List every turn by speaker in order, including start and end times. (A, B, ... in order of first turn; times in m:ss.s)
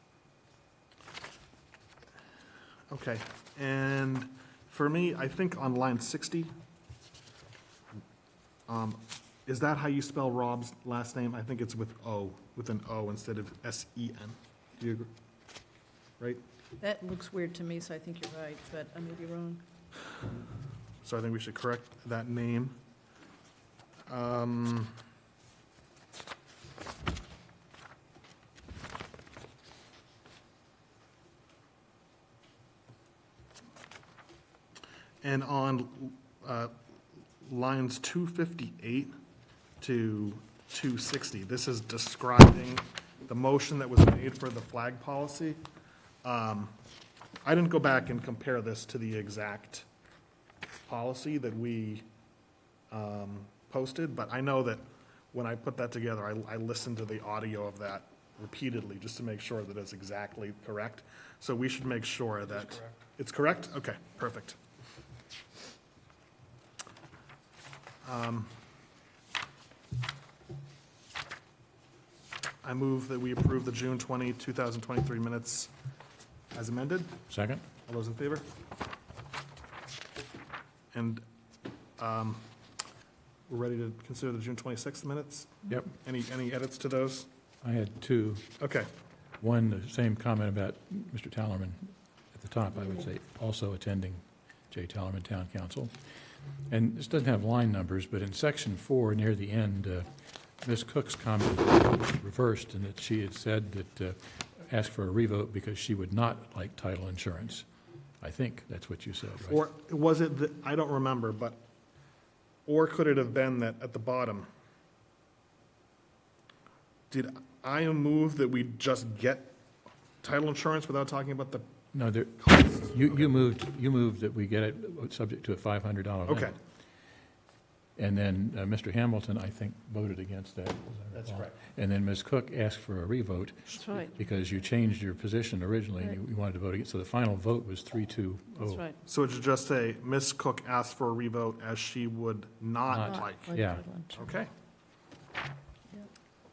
0:02.9-0:06.5 A
0:08.7-0:15.1 A
0:16.8-0:19.6 B
0:21.0-0:22.8 A
0:24.1-0:24.9 A
0:35.2-0:36.7 A
0:37.4-0:39.1 A
0:39.8-0:45.6 A
0:46.2-0:46.8 A
0:47.4-0:49.8 A
0:50.8-0:52.0 A
0:52.9-1:04.6 A
1:08.0-1:08.5 A
1:12.6-1:15.7 A
1:16.5-1:17.2 A
1:17.3-1:17.6 C
1:17.8-1:18.5 A
1:20.9-1:21.2 A
1:22.0-1:22.4 A
1:23.5-1:27.3 A
1:27.6-1:28.6 C
1:28.6-1:28.9 A
1:29.4-1:35.9 C
1:36.7-1:40.0 C
1:40.6-1:47.6 C
1:48.2-1:49.6 C
1:49.4-1:51.6 A
1:52.6-1:54.5 A
1:57.1-1:59.5 A
2:00.2-2:01.7 A
2:01.9-2:06.5 C
2:02.4-2:03.1 A
2:06.3-2:06.5 A
2:08.0-2:18.8 C
2:11.1-2:11.5 A
2:18.6-2:18.9 B
2:19.0-2:23.5 A
2:22.9-2:23.8 C
2:23.3-2:24.2 B
2:24.1-2:24.5 A